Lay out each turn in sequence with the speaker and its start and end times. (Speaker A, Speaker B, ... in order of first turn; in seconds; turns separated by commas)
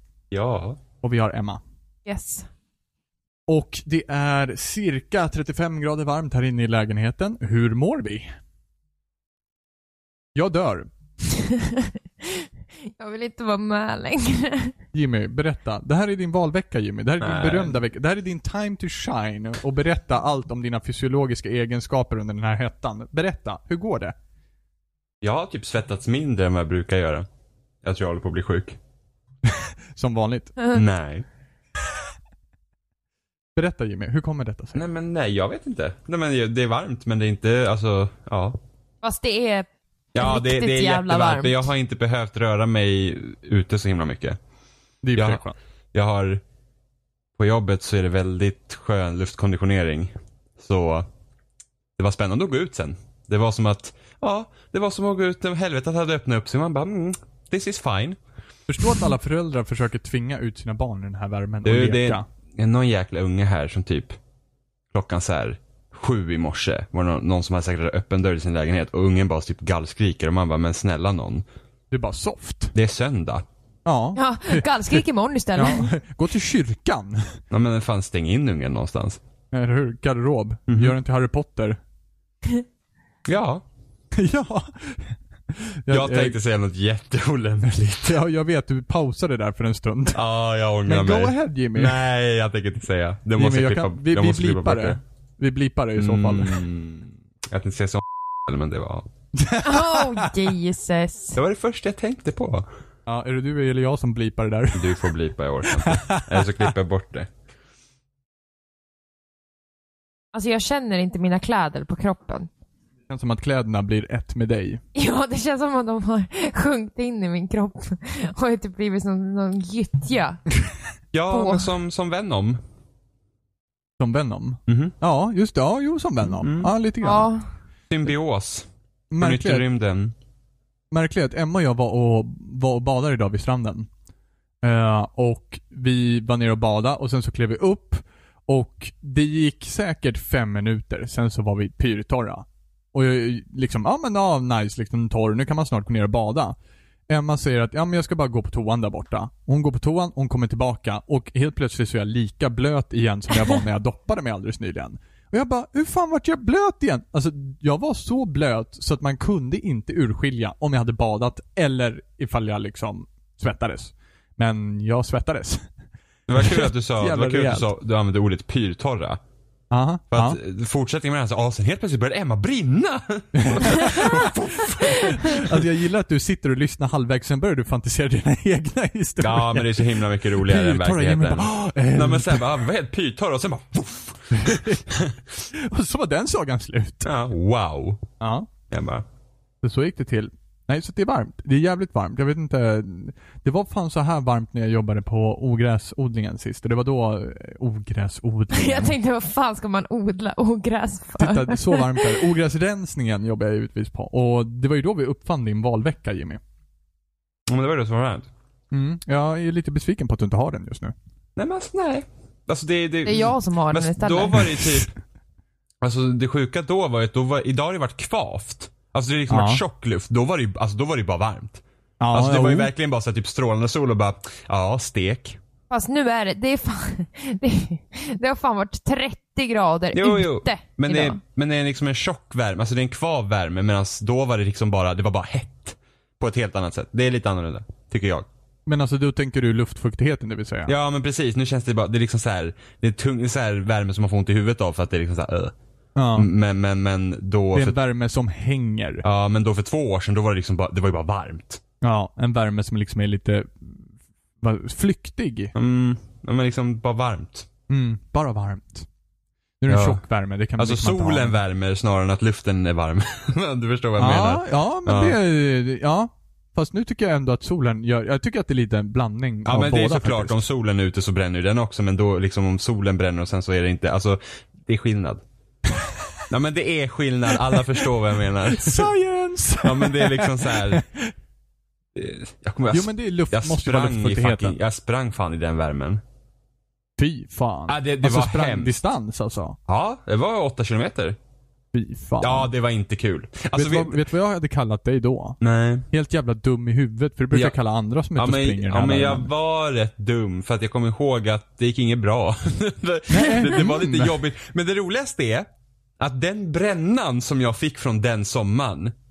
Speaker A: 0.3-0.8, Speaker B: 1.0-1.6, Speaker C: 2.1-2.5, Speaker B: 3.5-8.3, Speaker B: 10.4-10.9, Speaker C: 11.3-14.7, Speaker B: 14.9-24.1, Speaker A: 17.2-17.8, Speaker A: 25.2-27.3, Speaker A: 27.8-28.8, Speaker B: 29.5-30.5, Speaker C: 30.6-30.8, Speaker A: 30.7-31.3, Speaker B: 33.6-34.8, Speaker A: 34.8-38.5, Speaker C: 39.0-39.7, Speaker A: 40.1-44.4, Speaker C: 40.2-41.6, Speaker B: 45.0-45.6, Speaker A: 45.1-45.4, Speaker A: 45.9-46.4, Speaker A: 47.4-51.1, Speaker A: 52.0-58.2, Speaker B: 58.7-62.2, Speaker A: 61.6-64.2, Speaker A: 64.9-71.5, Speaker B: 71.9-72.7, Speaker A: 72.8-73.4, Speaker B: 73.9-75.0, Speaker C: 74.2-75.9, Speaker B: 75.6-77.4, Speaker A: 77.5-79.2, Speaker B: 79.5-81.8, Speaker A: 80.7-81.0, Speaker A: 83.3-83.6, Speaker B: 84.1-86.4, Speaker A: 85.9-88.2, Speaker B: 88.0-90.2, Speaker A: 90.1-95.0, Speaker B: 90.8-92.0, Speaker B: 93.4-96.6, Speaker A: 96.0-99.1, Speaker B: 99.3-100.5, Speaker C: 99.6-101.4, Speaker A: 101.4-102.7, Speaker B: 103.1-105.1, Speaker A: 104.8-107.3, Speaker B: 105.7-106.7, Speaker C: 110.3-112.5, Speaker B: 113.1-114.8, Speaker C: 115.0-120.4, Speaker A: 121.1-122.6, Speaker C: 121.3-121.8, Speaker B: 124.0-127.3, Speaker A: 124.7-124.9, Speaker A: 126.4-126.7, Speaker C: 127.0-127.4, Speaker A: 127.9-128.7, Speaker B: 129.1-129.7, Speaker A: 129.2-130.2, Speaker B: 130.9-133.9, Speaker B: 134.6-146.6, Speaker B: 147.1-165.7, Speaker A: 166.3-169.2, Speaker B: 166.4-167.7, Speaker B: 169.7-170.4, Speaker A: 170.1-175.6, Speaker B: 173.3-182.4, Speaker A: 179.2-185.2, Speaker B: 184.3-184.8, Speaker B: 185.5-187.1, Speaker A: 187.0-188.1, Speaker B: 188.2-188.5, Speaker A: 188.7-189.1, Speaker B: 189.6-198.9, Speaker C: 198.5-202.3, Speaker B: 201.2-206.4, Speaker A: 207.5-208.3, Speaker B: 208.7-210.9, Speaker A: 211.4-214.9, Speaker C: 213.1-214.6, Speaker A: 215.8-221.6, Speaker B: 219.3-219.6, Speaker B: 222.0-222.7, Speaker A: 222.1-225.4, Speaker C: 225.7-231.2, Speaker A: 229.9-238.3, Speaker B: 238.7-240.7, Speaker A: 240.7-245.5, Speaker B: 246.0-246.3, Speaker A: 246.2-247.8, Speaker B: 247.5-249.1, Speaker A: 249.0-251.6, Speaker B: 251.8-253.9, Speaker B: 254.4-255.5, Speaker A: 255.6-257.5, Speaker B: 257.7-258.9, Speaker B: 259.6-261.4, Speaker A: 259.7-260.0, Speaker A: 260.6-265.2, Speaker B: 264.0-270.4, Speaker A: 269.4-275.2, Speaker B: 275.8-276.2, Speaker A: 276.3-278.9, Speaker B: 277.4-277.8, Speaker B: 278.4-281.1, Speaker A: 279.6-280.8, Speaker A: 281.9-286.0, Speaker B: 282.7-284.6, Speaker B: 287.0-289.6, Speaker A: 287.7-288.8, Speaker A: 289.7-291.2, Speaker B: 291.7-292.5, Speaker A: 292.2-294.0, Speaker B: 293.5-299.3, Speaker A: 295.4-295.9, Speaker A: 297.3-297.6, Speaker A: 298.2-305.5, Speaker B: 303.1-304.1, Speaker A: 306.0-308.9